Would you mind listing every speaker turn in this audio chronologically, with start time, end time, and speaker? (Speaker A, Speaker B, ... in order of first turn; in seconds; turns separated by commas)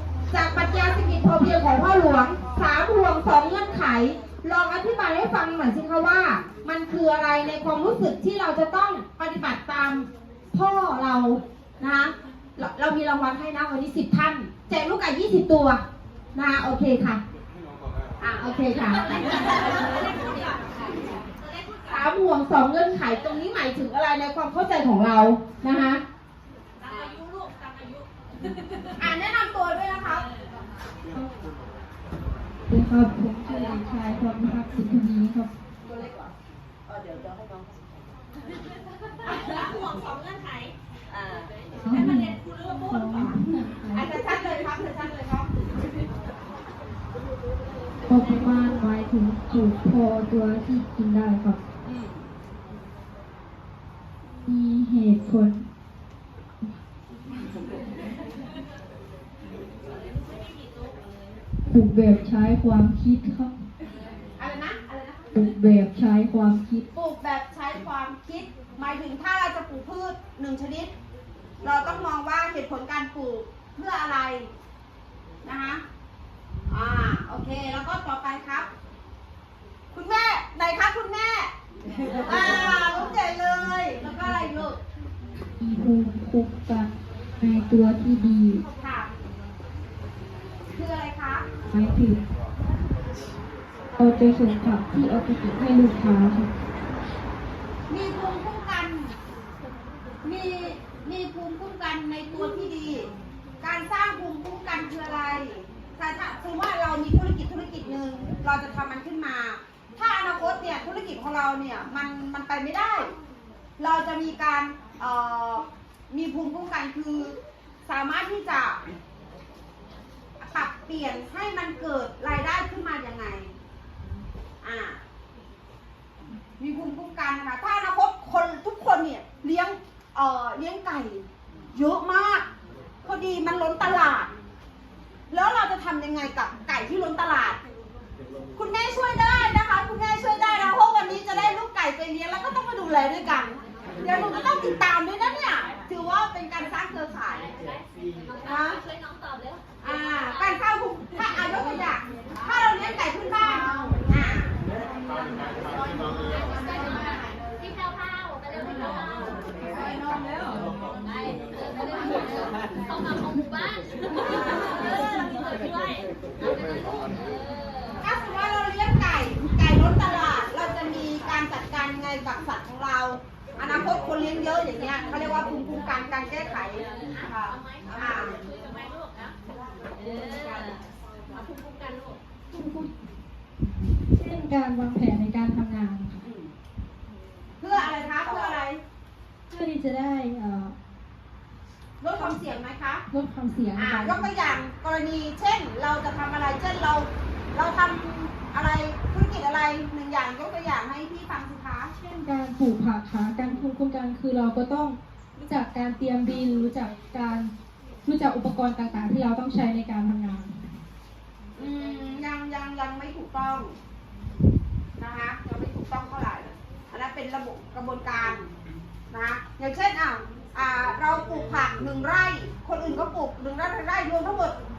Speaker A: 0.3-15.8, Speaker A: 16.4-17.2, Speaker A: 18.2-19.8, Speaker B: 19.1-21.8, Speaker A: 21.9-26.0, Speaker B: 26.8-28.0, Speaker A: 29.0-30.2, Speaker C: 32.7-35.5, Speaker A: 35.9-36.3, Speaker B: 36.9-37.5, Speaker B: 39.2-40.7, Speaker C: 41.8-44.1, Speaker B: 41.9-42.2, Speaker B: 42.8-43.3, Speaker A: 43.9-45.5, Speaker C: 48.1-51.6, Speaker C: 54.4-55.7, Speaker C: 61.7-63.6, Speaker A: 64.4-65.2, Speaker C: 65.3-66.9, Speaker A: 66.9-70.9, Speaker A: 71.6-74.5, Speaker A: 75.5-75.8, Speaker A: 76.7-78.7, Speaker A: 79.9-81.5, Speaker A: 82.1-84.8, Speaker C: 85.6-88.7, Speaker A: 88.8-89.1, Speaker A: 90.8-91.5, Speaker C: 91.7-92.2, Speaker C: 94.0-96.5, Speaker A: 97.9-99.2, Speaker A: 100.2-113.2, Speaker A: 113.8-118.8, Speaker A: 120.4-123.5, Speaker A: 124.6-125.0, Speaker A: 126.6-132.5, Speaker A: 133.1-134.3, Speaker A: 135.3-137.6, Speaker A: 138.6-147.5, Speaker A: 148.4-148.8, Speaker A: 149.8-154.6, Speaker B: 156.3-159.4, Speaker A: 159.7-160.2, Speaker B: 161.1-167.2, Speaker A: 164.7-165.0, Speaker A: 168.0-178.4, Speaker B: 178.1-179.3, Speaker B: 180.0-180.8, Speaker B: 181.4-182.2, Speaker C: 182.5-182.9, Speaker C: 184.0-186.2, Speaker A: 186.2-186.5, Speaker A: 187.6-188.8, Speaker C: 189.5-190.8, Speaker A: 192.0-193.1, Speaker C: 193.1-194.3, Speaker A: 193.8-201.9, Speaker C: 202.0-207.5, Speaker C: 208.1-210.6, Speaker A: 211.6-213.8, Speaker A: 215.0-218.5, Speaker A: 219.1-224.6